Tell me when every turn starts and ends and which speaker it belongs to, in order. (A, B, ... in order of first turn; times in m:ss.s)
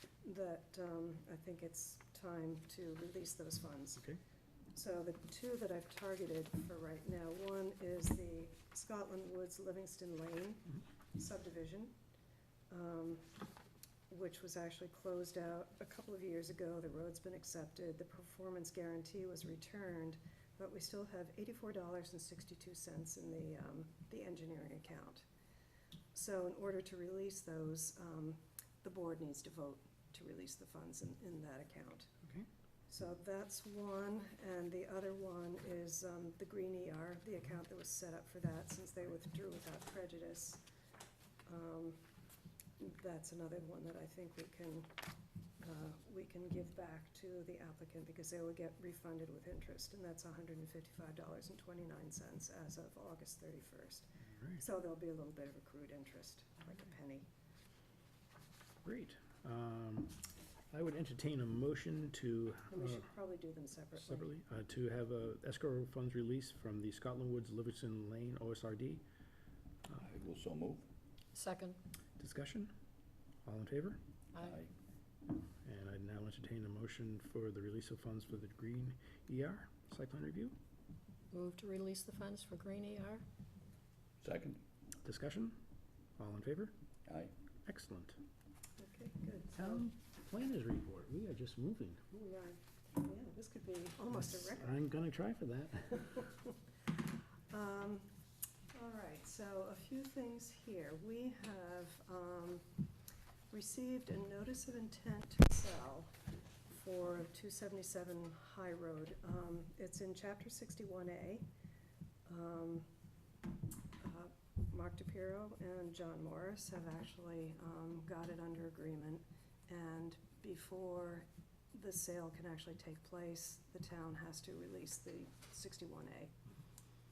0:00.2-0:04.1 A
0:04.7-0:11.9 A
0:12.7-0:13.3 A
0:14.1-0:25.2 A
0:26.1-0:32.1 A
0:32.9-0:40.6 A
0:41.4-0:42.0 A
0:42.8-0:45.0 A
0:45.6-0:57.3 A
0:54.3-0:54.6 B
0:58.8-1:03.0 B
1:02.7-1:04.3 A
1:04.0-1:09.0 B
1:09.9-1:10.9 C
1:11.3-1:11.8 D
1:12.2-1:12.7 B
1:13.4-1:14.0 B
1:14.4-1:14.7 C
1:15.6-1:20.6 B
1:21.3-1:23.2 D
1:24.2-1:24.6 C
1:25.0-1:25.6 B
1:26.2-1:26.7 B
1:27.0-1:27.3 C
1:27.6-1:28.2 B
1:28.8-1:29.8 A
1:29.6-1:32.0 B
1:32.1-1:34.8 A
1:34.3-1:36.2 B
1:37.5-1:38.1 A
1:38.7-1:42.8 A
1:43.5-1:46.2 A
1:46.7-1:51.5 A
1:52.2-1:52.9 A
1:54.0-2:06.3 A